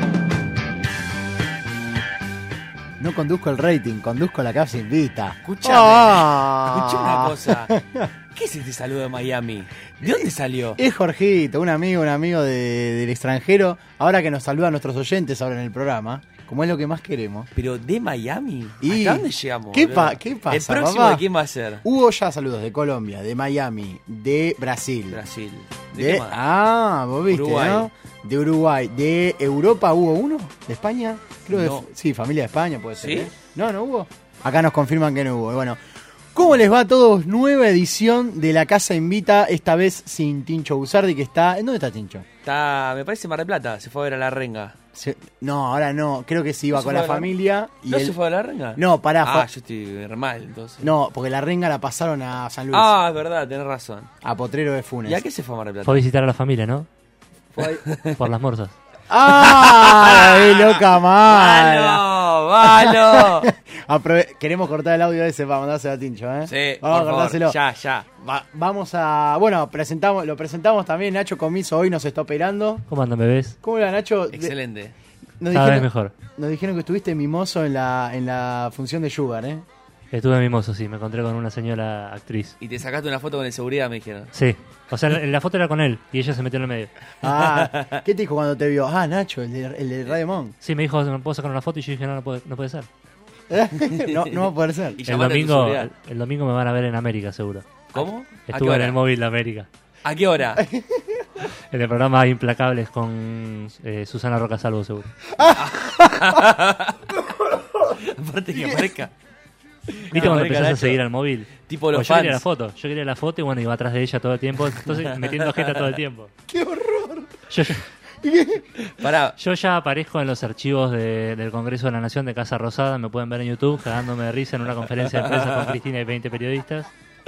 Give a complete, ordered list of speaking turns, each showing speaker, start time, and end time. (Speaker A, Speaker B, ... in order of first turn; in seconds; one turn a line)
Speaker A: 3.0-8.1
Speaker B: 5.5-7.8
Speaker B: 8.3-10.8
Speaker A: 10.8-17.5
Speaker B: 17.6-21.9
Speaker A: 18.8-21.2
Speaker A: 21.8-25.2
Speaker B: 25.1-26.4
Speaker A: 25.9-35.8
Speaker B: 27.3-27.9
Speaker B: 31.5-31.9
Speaker B: 33.0-33.3
Speaker A: 36.3-42.3
Speaker B: 42.5-44.8
Speaker A: 45.0-48.1
Speaker B: 46.7-47.3
Speaker B: 47.9-50.9
Speaker A: 48.8-49.5
Speaker A: 50.8-52.9
Speaker B: 52.7-54.1
Speaker A: 54.2-55.2
Speaker B: 55.1-56.0
Speaker C: 55.9-56.9
Speaker A: 57.5-57.8
Speaker B: 57.9-58.2
Speaker C: 58.2-58.7
Speaker A: 59.1-62.1
Speaker B: 59.3-63.5
Speaker A: 62.6-67.6
Speaker B: 66.5-68.1
Speaker A: 68.2-72.8
Speaker C: 72.9-73.6
Speaker A: 73.6-74.5
Speaker B: 74.3-75.0
Speaker A: 75.4-79.7
Speaker C: 75.5-76.1
Speaker C: 80.1-82.6
Speaker B: 82.6-84.3
Speaker C: 84.3-86.9
Speaker A: 87.2-90.5
Speaker B: 87.3-88.0
Speaker C: 90.6-92.9
Speaker A: 93.5-95.0
Speaker B: 94.0-95.9
Speaker C: 95.1-97.7
Speaker B: 97.9-99.0
Speaker C: 98.5-99.7
Speaker B: 100.0-100.6
Speaker A: 100.6-101.2
Speaker C: 101.7-105.1
Speaker A: 105.4-106.2
Speaker B: 105.5-107.1
Speaker B: 107.8-109.1
Speaker A: 108.6-108.8
Speaker B: 110.1-111.0
Speaker C: 110.1-116.3
Speaker B: 111.7-112.4
Speaker B: 115.0-115.9
Speaker A: 116.5-117.4
Speaker C: 117.5-117.8
Speaker A: 118.2-118.7
Speaker B: 118.8-119.4
Speaker C: 119.4-126.9
Speaker B: 125.2-125.6